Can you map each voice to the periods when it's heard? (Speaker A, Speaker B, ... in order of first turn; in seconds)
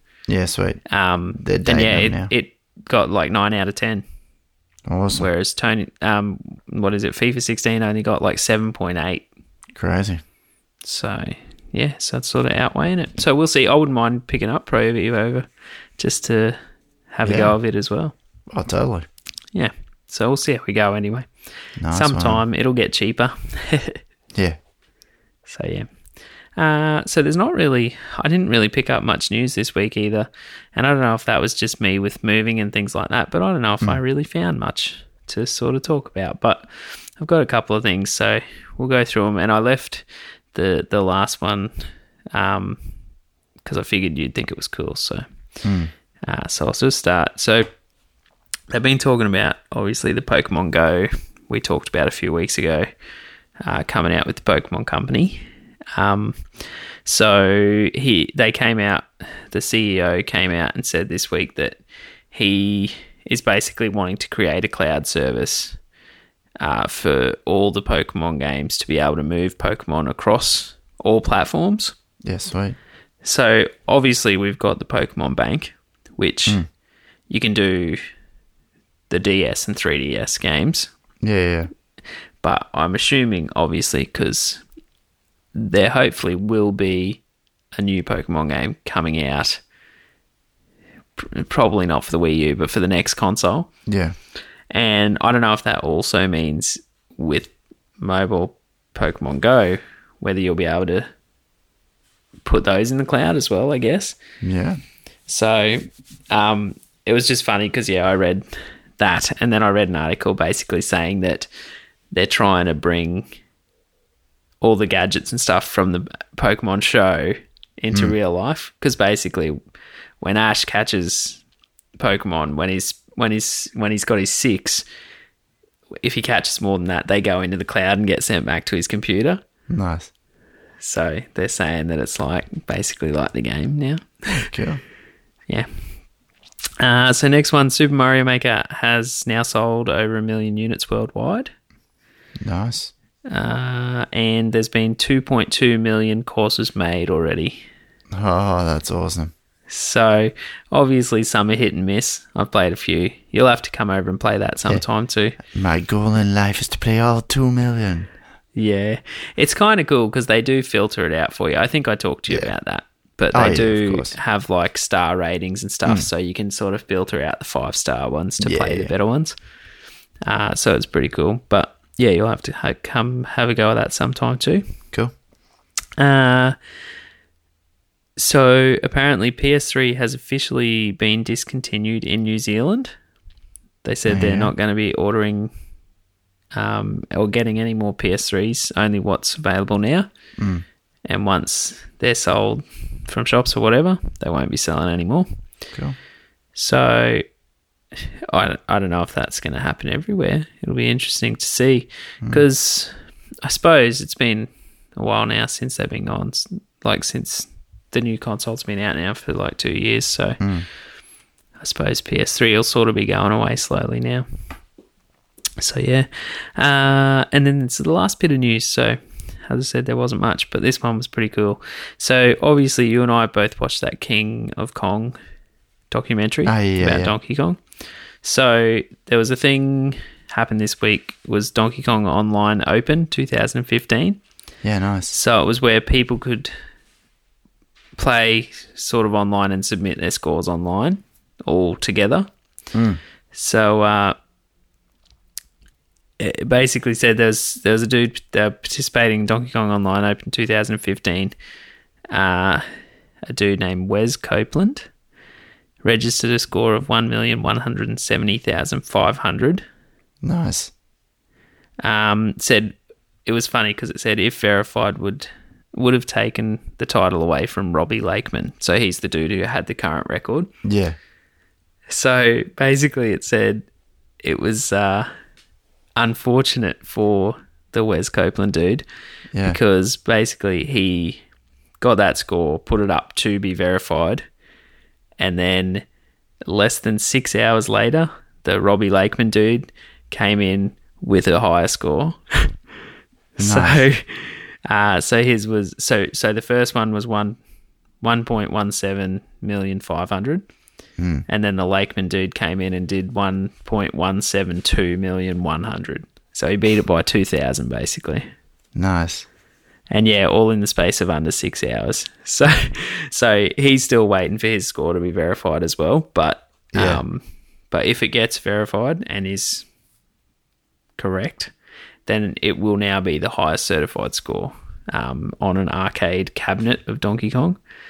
Speaker A: 0.3-0.8, 1.4-2.3, 4.9-5.3, 9.8-10.2, 17.2-17.6, 18.5-19.1, 21.8-22.4, 45.6-45.9, 72.2-72.8, 81.2-81.7, 93.9-94.1, 104.4-104.8, 129.7-130.1, 134.3-134.8, 142.4-142.9, 148.1-149.3, 155.4-158.1, 163.3-164.1, 168.4-168.9, 184.1-184.5, 190.4-190.6, 210.4-210.7, 226.4-227.1, 234.6-235.1, 242.7-243.0, 260.2-260.7, 270.6-270.9, 279.3-279.6, 293.4-293.9, 301.0-301.2, 308.7-309.2, 316.7-317.0
Speaker B: 0.9-4.0, 5.1-9.2, 10.8-16.6, 17.1-18.1, 19.5-21.3, 21.9-24.0, 25.4-25.9, 26.6-41.7, 42.3-42.8, 43.6-45.2, 46.2-47.6, 48.7-52.9, 53.6-55.4, 55.9-61.8, 62.3-65.8, 66.6-71.9, 73.2-76.6, 77.3-78.0, 79.1-80.9, 82.4-84.6, 85.5-87.2, 87.7-89.6, 91.2-93.7, 94.7-101.1, 102.4-104.2, 105.3-108.4, 109.0-111.5, 112.1-113.3, 114.6-119.6, 120.2-121.4, 122.0-124.8, 126.0-129.4, 130.8-134.2, 136.8-141.5, 143.3-147.6, 149.7-155.4, 158.5-169.3, 170.2-174.6, 176.0-176.6, 178.2-182.9, 183.8-185.5, 186.5-190.1, 191.1-195.3, 196.5-197.2, 197.9-210.4, 211.6-214.2, 215.6-225.2, 225.9-227.6, 228.2-234.2, 235.1-236.5, 237.9-242.3, 243.3-244.2, 246.2-251.3, 252.1-252.6, 253.3-254.9, 255.8-259.6, 261.8-270.5, 271.9-273.6, 274.2-275.1, 276.0-278.8, 279.4-281.2, 281.8-284.2, 285.2-285.8, 286.4-292.5, 293.4-297.4, 298.0-300.4, 301.3-308.2, 309.9-319.7, 321.0-321.5, 322.1-327.6